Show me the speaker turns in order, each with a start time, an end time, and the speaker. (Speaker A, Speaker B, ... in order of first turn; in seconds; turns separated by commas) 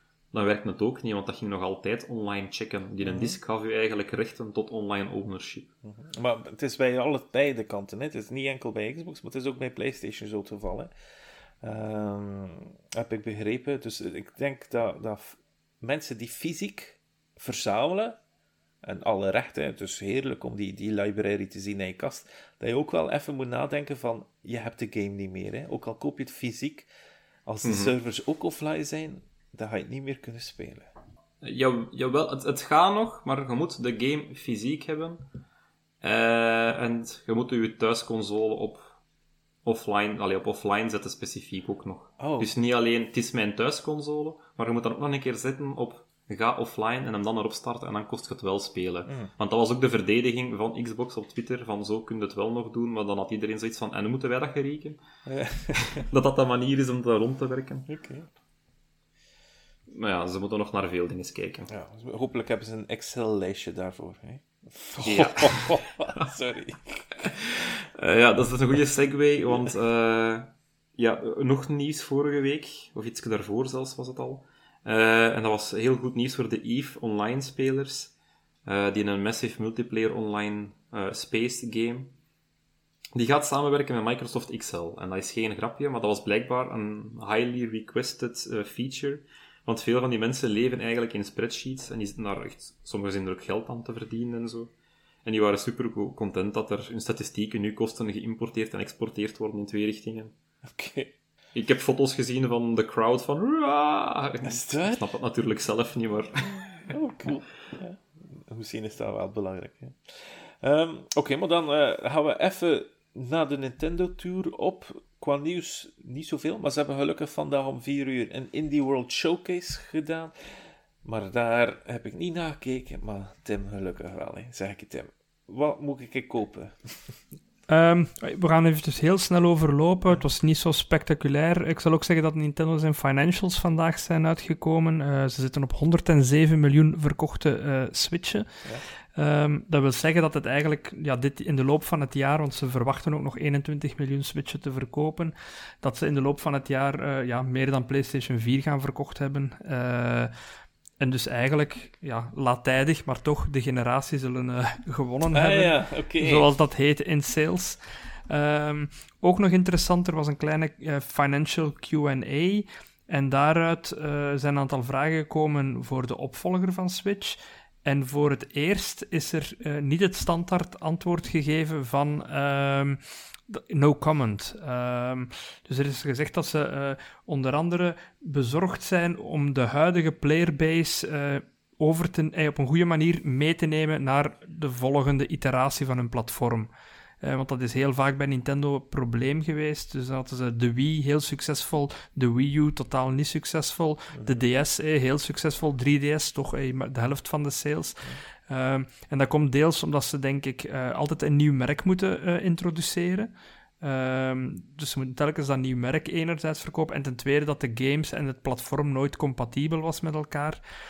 Speaker A: 0.3-5.7, Speaker B: 3.0-3.4, Speaker B: 5.8-10.9, Speaker B: 11.6-18.2, Speaker B: 18.8-26.9, Speaker B: 27.4-30.9, Speaker A: 27.6-27.9, Speaker A: 31.4-35.2, Speaker A: 36.0-38.9, Speaker A: 39.6-55.0, Speaker B: 42.2-42.5, Speaker B: 49.0-49.3, Speaker B: 55.2-56.0, Speaker A: 55.9-57.9, Speaker B: 57.9-58.3, Speaker A: 59.9-61.7, Speaker B: 61.7-67.3, Speaker A: 65.0-65.7, Speaker A: 67.2-78.1, Speaker A: 78.7-82.1, Speaker A: 83.1-94.7, Speaker A: 95.2-100.3, Speaker B: 100.6-101.1, Speaker A: 101.5-106.9, Speaker B: 104.4-105.0, Speaker B: 106.9-127.2, Speaker C: 127.7-150.3, Speaker C: 151.0-186.7, Speaker B: 155.3-156.5, Speaker C: 187.2-210.6, Speaker B: 194.1-194.4